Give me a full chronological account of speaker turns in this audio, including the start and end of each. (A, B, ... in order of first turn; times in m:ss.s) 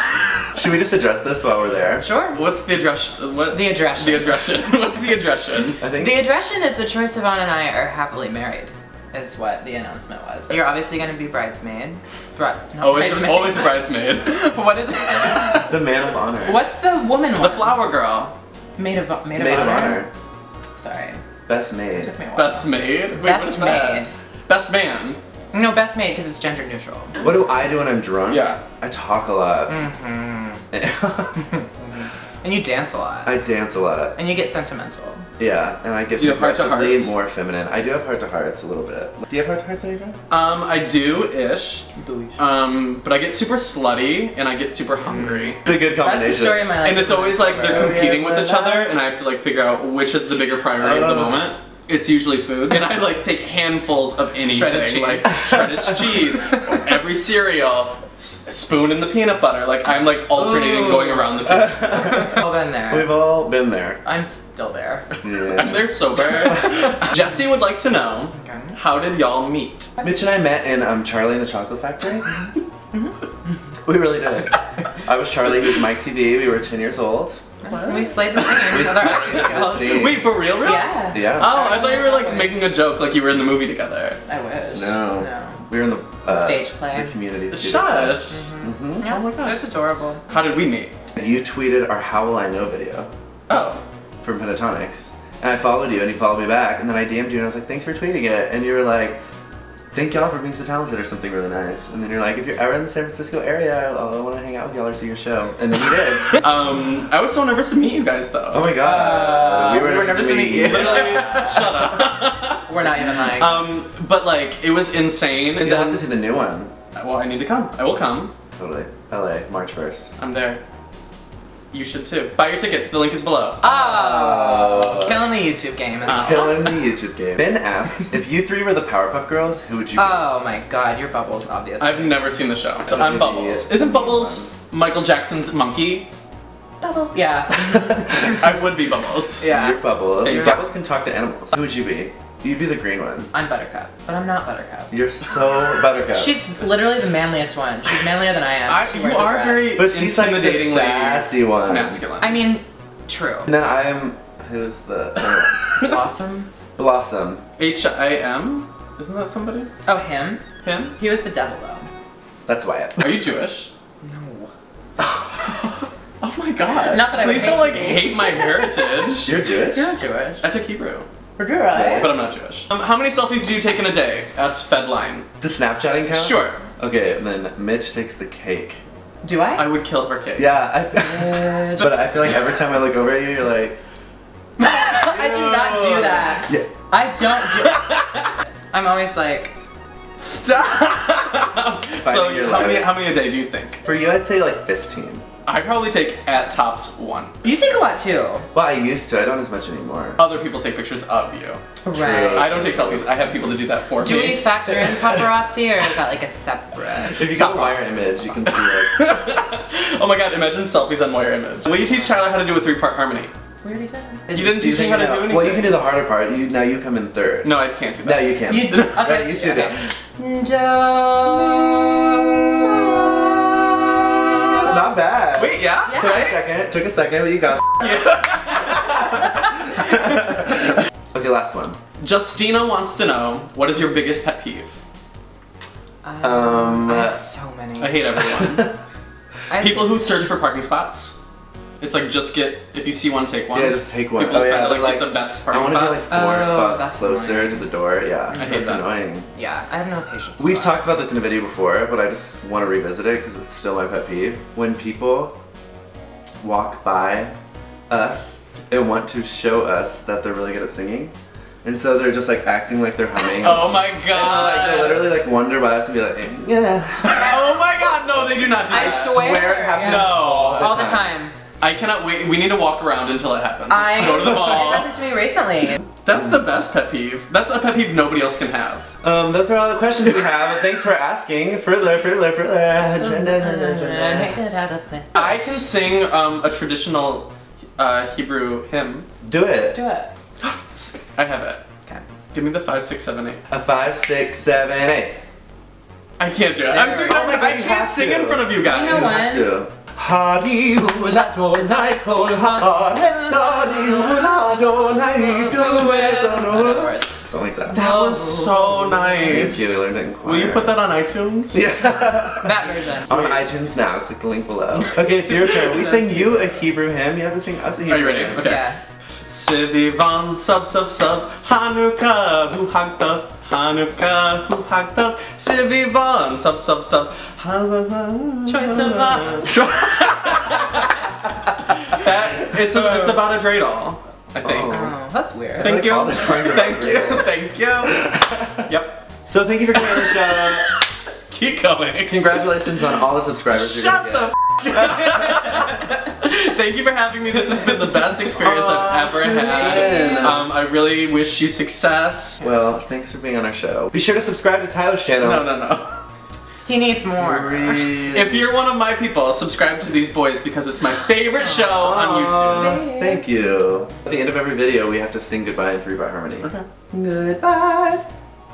0:00.5-0:02.0 A
0:02.0-0:02.4 B
0:02.3-0:05.8 C
0:03.5-0:04.7 B
0:05.8-0:06.2 A
0:05.8-0:13.8 B
0:12.8-0:15.7 C
0:15.0-0:15.6 B
0:15.5-0:16.6 A
0:16.4-0:17.8 B
0:17.4-0:18.3 C
0:18.8-0:20.1 B
0:19.3-0:20.1 A
0:20.8-0:21.2 B
0:21.5-0:22.1 A
0:21.9-0:24.1 B
0:22.3-0:25.2 C
0:25.5-0:27.1 B
0:27.2-0:29.8 A
0:28.3-0:28.6 C
0:29.7-0:30.6 B
0:30.7-0:31.4 A
0:31.5-0:33.4 B
0:33.2-0:34.2 A
0:34.1-0:35.2 B
0:35.4-0:40.2 A
0:36.2-0:37.2 C
0:40.3-0:45.6 C
0:42.0-0:42.4 B
0:45.0-0:48.8 B
0:45.6-0:46.7 A
0:46.8-1:02.4 C
0:47.6-0:48.7 A
0:50.7-0:51.5 A
0:54.4-0:56.8 B
1:00.6-1:01.3 B
1:01.4-1:02.3 A
1:02.0-1:03.1 B
1:02.9-1:04.0 A
1:04.0-1:05.1 B
1:05.2-1:06.5 A
1:05.4-1:09.9 C
1:08.3-1:08.8 B
1:10.0-1:12.3 A
1:13.8-1:17.4 A
1:17.6-1:20.0 B
1:17.6-1:24.2 C
1:18.5-1:20.3 A
1:20.6-1:22.6 B
1:21.1-1:21.6 A
1:24.3-1:25.6 B
1:24.7-1:29.1 A
1:26.2-1:27.1 B
1:27.5-1:28.5 C
1:28.3-1:30.2 B
1:29.0-1:29.7 C
1:30.3-1:30.9 C
1:31.1-1:33.1 A
1:33.5-1:33.8 C
1:34.2-1:39.2 A
1:39.9-1:46.4 A
1:46.3-1:48.7 C
1:48.5-1:51.9 A
1:48.8-1:51.7 B
1:50.5-1:56.0 C
1:52.7-1:53.6 B
1:55.6-1:56.7 A
1:57.0-1:58.3 C
1:58.5-2:00.1 A
2:00.2-2:00.6 C
2:01.7-2:03.6 C
2:03.6-2:06.5 B
2:03.6-2:05.2 A
2:06.0-2:06.9 C
2:06.1-2:10.3 A
2:10.0-2:12.2 B
2:11.8-2:16.1 C
2:12.9-2:14.5 A
2:17.0-2:18.4 B
2:18.1-2:19.5 C
2:19.4-2:20.6 B
2:19.4-2:23.3 A
2:20.2-2:20.6 C
2:23.3-2:24.9 B
2:24.9-2:26.4 A
2:26.1-2:29.8 B
2:28.7-2:32.4 C
2:29.8-2:32.0 A
2:32.2-2:33.5 B
2:33.4-2:35.6 A
2:35.2-2:35.9 C
2:35.8-2:36.5 B
2:36.8-2:37.4 A
2:37.6-2:39.7 C
2:39.8-2:40.4 B
2:40.6-2:40.9 C
2:41.0-2:41.9 B
2:42.4-2:43.2 A
2:43.0-2:43.7 C
2:44.0-2:44.5 B
2:45.0-2:45.2 A
2:45.5-2:49.4 C
2:46.8-2:48.9 B
2:49.2-2:49.9 A
2:49.5-2:50.4 B
2:50.4-2:51.0 C
2:51.4-2:52.1 B
2:51.7-2:52.1 A
2:51.8-2:55.3 C
2:55.4-2:58.8 A
2:56.1-2:56.6 C
2:59.2-2:59.7 B
2:59.6-3:00.5 C
3:00.4-3:03.8 A
3:01.0-3:01.9 B
3:04.6-3:07.9 B
3:05.0-3:06.1 C
3:05.2-3:06.7 A
3:07.4-3:08.3 C
3:08.7-3:09.5 B
3:10.2-3:13.8 C
3:12.0-3:13.0 A
3:13.8-3:15.2 A
3:15.4-3:17.6 C
3:17.4-3:18.4 B
3:18.5-3:20.2 A
3:20.2-3:21.6 C
3:21.8-3:22.5 B
3:21.9-3:23.6 A
3:22.3-3:24.5 C
3:24.0-3:27.2 B
3:24.9-3:25.2 A
3:27.0-3:33.3 C
3:27.1-3:29.1 A
3:31.7-3:32.1 B
3:33.6-3:35.3 B
3:34.3-3:35.8 C
3:34.3-3:39.8 A
3:37.4-3:38.9 C
3:38.5-3:43.5 B
3:44.2-3:44.7 B
3:44.6-3:48.1 A
3:45.4-3:46.2 C
3:45.9-3:46.3 B
3:47.8-3:50.0 C
3:49.8-3:51.8 A
3:52.0-3:54.7 C
3:56.0-3:58.1 B
3:56.2-3:57.2 A
3:57.8-3:58.7 C
3:58.3-3:58.7 A
3:59.5-4:00.3 B
3:59.6-4:01.2 C
4:01.8-4:06.0 C
4:03.5-4:09.3 A
4:06.1-4:07.7 B
4:08.3-4:08.9 C
4:08.4-4:08.6 B
4:09.3-4:10.8 B
4:10.4-4:15.4 A
4:16.4-4:17.3 A
4:17.9-4:31.1 A
4:23.2-4:25.1 C
4:27.0-4:30.8 C
4:28.6-4:31.4 B
4:31.6-4:34.9 C
4:33.7-4:35.8 B
4:34.0-4:34.7 A
4:36.0-4:38.9 C
4:39.0-4:44.4 A
4:43.0-4:45.6 B
4:45.1-4:49.1 C
4:49.2-4:49.8 A
4:49.7-4:50.1 B
4:50.4-4:51.6 C
4:52.3-4:53.4 C
4:53.5-4:55.2 A
4:56.2-4:59.3 C
4:56.7-4:57.6 B
4:56.9-5:07.9 A
4:58.6-4:59.5 B
5:03.3-5:04.1 B
5:05.2-5:07.1 B
5:07.7-5:11.7 C
5:07.8-5:09.2 B
5:09.2-5:10.8 A
5:11.5-5:18.5 A
5:12.4-5:13.4 B
5:14.8-5:16.5 C
5:17.8-5:18.6 C
5:18.4-5:18.8 B
5:19.3-5:30.9 C
5:28.4-5:29.6 B
5:29.5-5:30.4 A
5:31.8-5:34.8 C
5:32.0-5:33.2 A
5:34.4-5:34.9 A
5:34.7-5:35.9 B
5:35.6-5:37.3 A
5:35.6-5:39.0 C
5:37.8-5:38.6 A
5:39.2-5:40.7 A
5:39.7-5:42.4 C
5:42.1-5:44.3 A
5:44.5-5:52.4 C
5:48.6-5:50.4 A
5:49.7-5:50.3 B
5:52.4-5:55.5 A
5:55.2-5:56.0 C
5:56.6-5:57.9 B
5:57.2-5:58.5 A
5:58.1-6:02.8 C
6:01.9-6:08.0 A
6:02.4-6:03.2 B